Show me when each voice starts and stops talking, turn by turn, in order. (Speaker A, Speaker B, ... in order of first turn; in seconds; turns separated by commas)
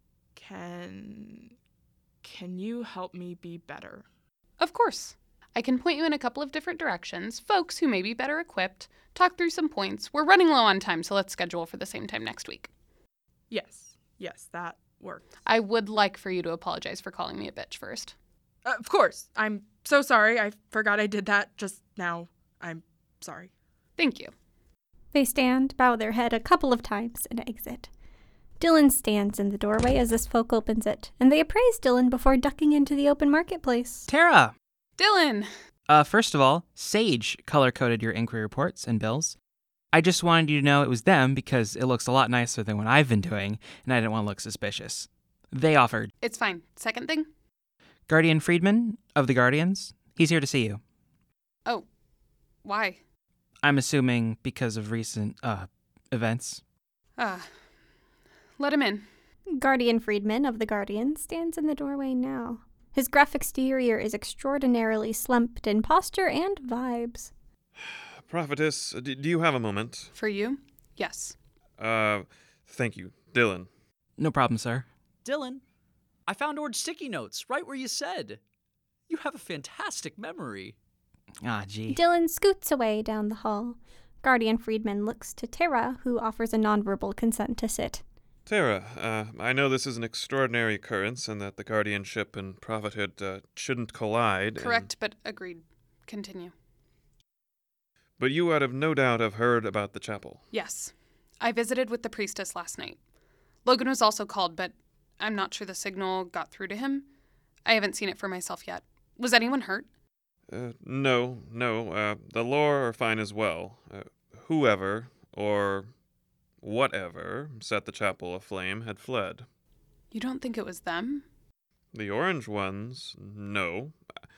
Speaker A: 0.3-1.5, Speaker A: 2.2-4.0, Speaker B: 4.6-12.7, Speaker A: 13.5-15.3, Speaker B: 15.4-18.1, Speaker A: 18.6-23.5, Speaker B: 24.0-24.3, Speaker C: 25.1-27.9, Speaker C: 28.6-34.1, Speaker D: 34.1-34.5, Speaker B: 35.0-35.5, Speaker D: 35.9-39.4, Speaker D: 39.9-46.1, Speaker B: 46.2-47.3, Speaker D: 48.1-50.8, Speaker B: 52.6-53.0, Speaker D: 53.6-56.6, Speaker B: 57.2-57.5, Speaker B: 58.6-59.0, Speaker C: 59.5-67.3, Speaker E: 67.8-70.1, Speaker B: 70.1-71.3, Speaker E: 71.8-73.7, Speaker D: 74.2-74.9, Speaker F: 75.2-75.6, Speaker F: 76.3-78.4, Speaker F: 79.1-80.7, Speaker D: 81.4-82.0, Speaker C: 81.9-88.0, Speaker E: 88.5-94.9, Speaker B: 94.5-96.5, Speaker E: 98.2-100.4, Speaker B: 100.5-103.0, Speaker B: 103.6-107.1, Speaker B: 107.6-109.9, Speaker E: 110.5-115.9, Speaker E: 116.6-119.5, Speaker B: 120.1-121.2, Speaker E: 121.9-124.0